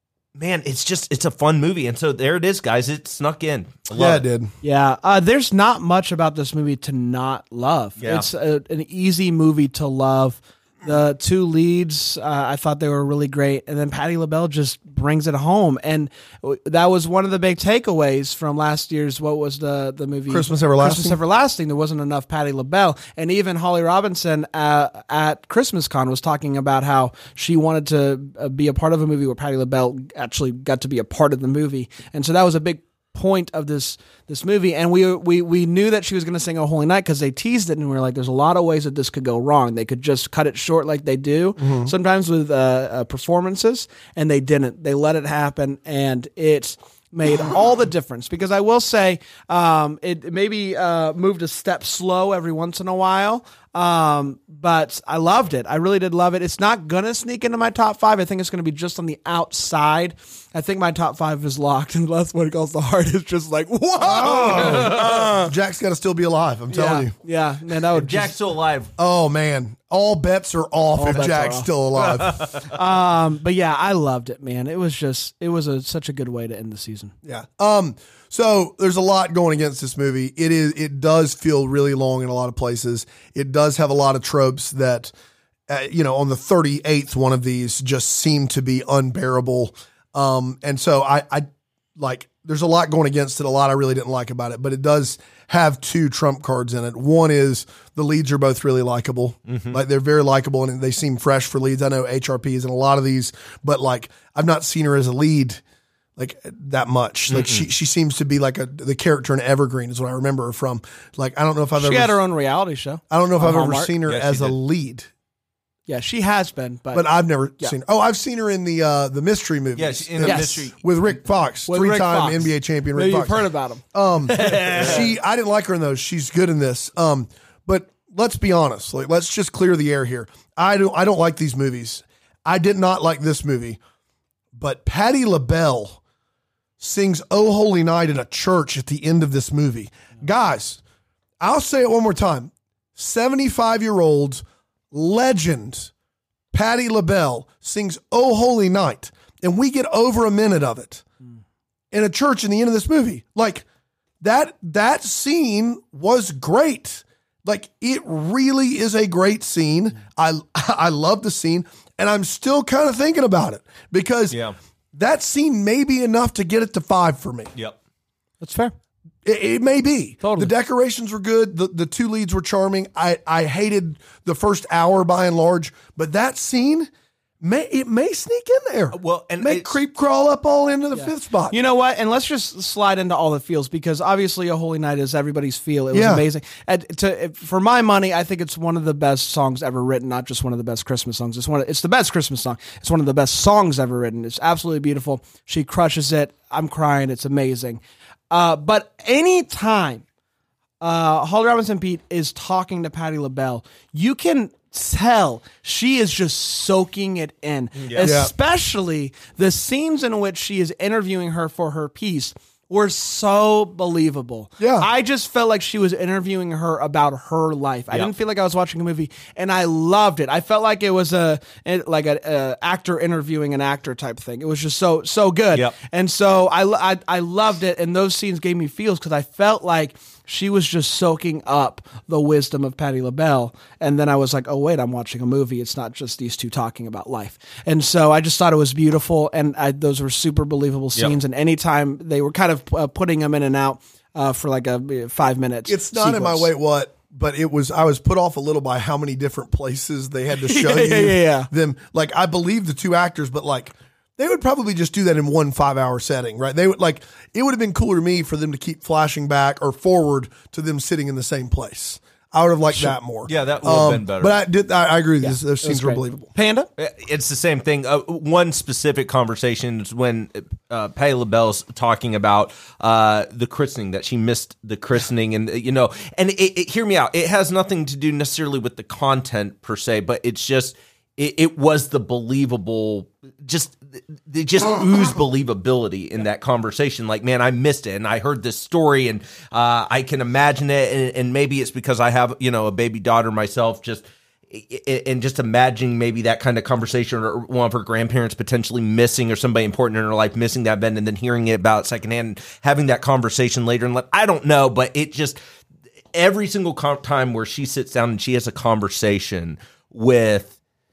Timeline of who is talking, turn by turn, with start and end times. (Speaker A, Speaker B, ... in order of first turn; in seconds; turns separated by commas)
Speaker A: 0.4-4.2, Speaker B: 3.9-4.5, Speaker C: 4.6-65.5, Speaker A: 8.0-8.3, Speaker B: 20.3-21.2, Speaker B: 41.6-41.9, Speaker B: 64.0-67.1, Speaker A: 64.5-65.4, Speaker C: 66.7-68.3, Speaker A: 67.9-68.9, Speaker B: 69.0-72.5, Speaker C: 70.9-71.7, Speaker A: 72.0-72.7, Speaker C: 72.6-77.1, Speaker B: 77.2-85.1, Speaker B: 85.7-105.6, Speaker A: 99.5-99.8, Speaker B: 106.2-112.2, Speaker A: 107.3-107.7, Speaker C: 111.8-113.9, Speaker B: 113.1-115.1, Speaker A: 114.1-114.5, Speaker C: 115.9-117.1, Speaker B: 116.9-133.8, Speaker A: 119.8-120.8, Speaker C: 120.2-120.6, Speaker C: 121.7-125.1, Speaker A: 124.5-125.1, Speaker B: 134.6-136.0, Speaker B: 136.8-140.8, Speaker B: 141.4-145.9, Speaker B: 146.5-151.0, Speaker B: 151.9-153.7, Speaker B: 154.2-164.4, Speaker A: 164.3-164.6, Speaker B: 164.9-167.5, Speaker C: 168.4-168.7, Speaker B: 169.2-176.9, Speaker C: 170.2-170.5, Speaker B: 177.4-181.6, Speaker A: 178.9-179.8, Speaker C: 180.9-200.0, Speaker B: 185.9-186.2, Speaker C: 200.8-246.5, Speaker A: 207.8-208.2, Speaker B: 208.0-208.3, Speaker B: 214.6-214.9, Speaker B: 245.7-266.3, Speaker C: 250.4-251.5, Speaker A: 263.2-264.4, Speaker C: 265.2-266.7, Speaker A: 266.8-305.4, Speaker A: 306.1-310.5